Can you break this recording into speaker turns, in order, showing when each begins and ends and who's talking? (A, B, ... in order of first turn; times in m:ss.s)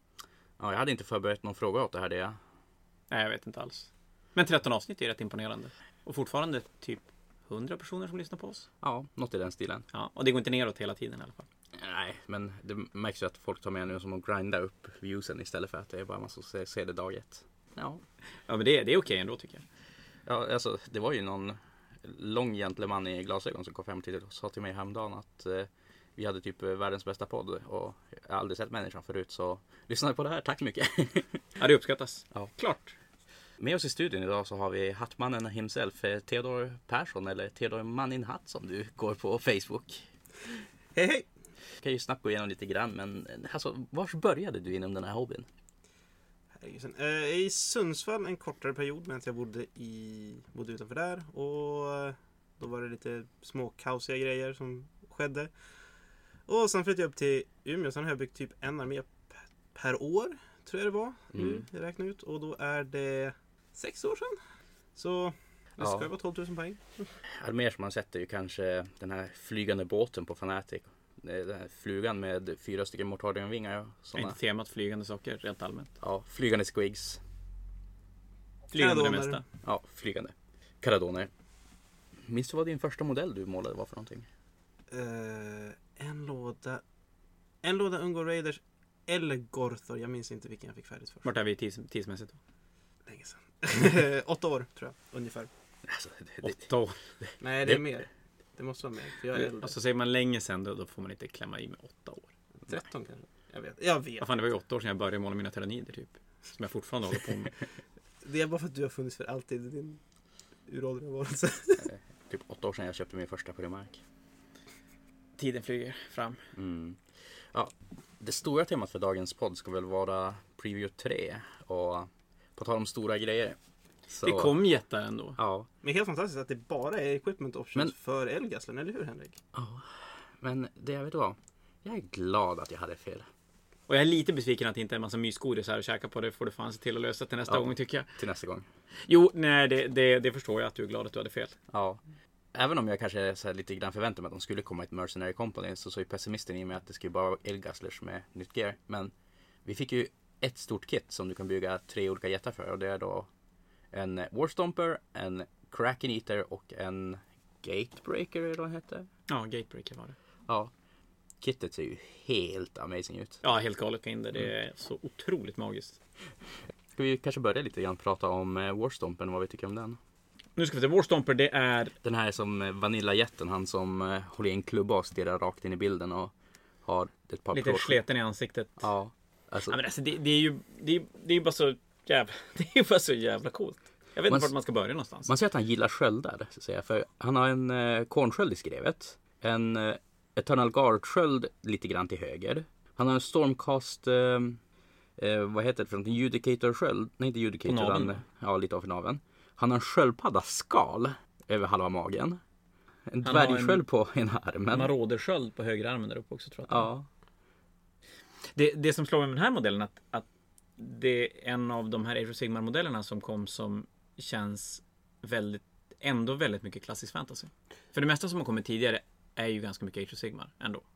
0:00.6-0:02.4 A
0:03.1-0:08.7 B
0:08.8-0:09.9 A
0:09.9-0:11.4 B
0:11.8-0:18.0 A
0:18.5-0:19.6 B
0:20.2-0:31.4 A
0:31.6-0:32.9 B
0:33.6-0:40.0 A
0:40.9-0:41.2 C
0:41.8-0:45.5 A
0:46.6-0:55.5 C
0:56.5-1:04.4 C
1:01.3-1:01.6 A
1:05.0-1:07.1 C
1:05.8-1:06.1 A
1:07.2-1:14.4 A
1:14.1-1:15.9 B
1:16.0-1:17.2 A
1:18.7-1:19.4 C
1:18.7-1:19.4 B
1:19.6-1:21.3 A
1:22.2-1:24.3 A
1:24.9-1:26.8 C
1:27.6-1:31.2 C
1:31.2-1:32.4 B
1:33.1-1:35.5 C
1:35.8-1:37.8 A
1:36.4-1:36.9 B
1:37.4-1:39.7 C
1:39.3-1:42.3 B
1:42.7-1:44.3 C
1:44.2-1:47.6 B
1:48.2-1:50.0 C
1:50.7-1:51.8 C
1:51.8-1:54.0 A
1:55.4-1:56.4 B
1:56.5-2:03.6 A
2:04.1-2:04.5 A
2:04.2-2:05.4 B
2:05.4-2:05.7 A
2:05.8-2:09.4 C
2:09.5-2:13.3 A
2:13.9-2:18.1 B
2:17.5-2:18.7 A
2:19.0-2:21.6 B
2:21.7-2:22.0 A
2:22.5-2:29.1 A
2:29.6-2:33.3 A
2:33.9-2:39.1 A
2:39.3-2:40.2 B
2:40.5-2:40.7 A
2:41.4-2:43.4 A
2:43.4-2:46.0 B
2:47.0-2:50.0 A
2:50.6-2:52.0 B
2:52.0-2:56.3 A
2:56.8-2:58.0 A
2:57.5-2:58.8 B
2:58.8-2:59.8 A
2:59.7-3:05.3 B
3:04.3-3:04.5 A
3:05.2-3:14.6 A
3:15.2-3:22.4 A
3:17.6-3:18.2 B
3:23.1-3:24.9 A
3:23.2-3:23.8 B
3:24.7-3:26.9 B
3:26.7-3:27.1 A
3:28.5-3:30.2 B
3:30.8-3:40.8 B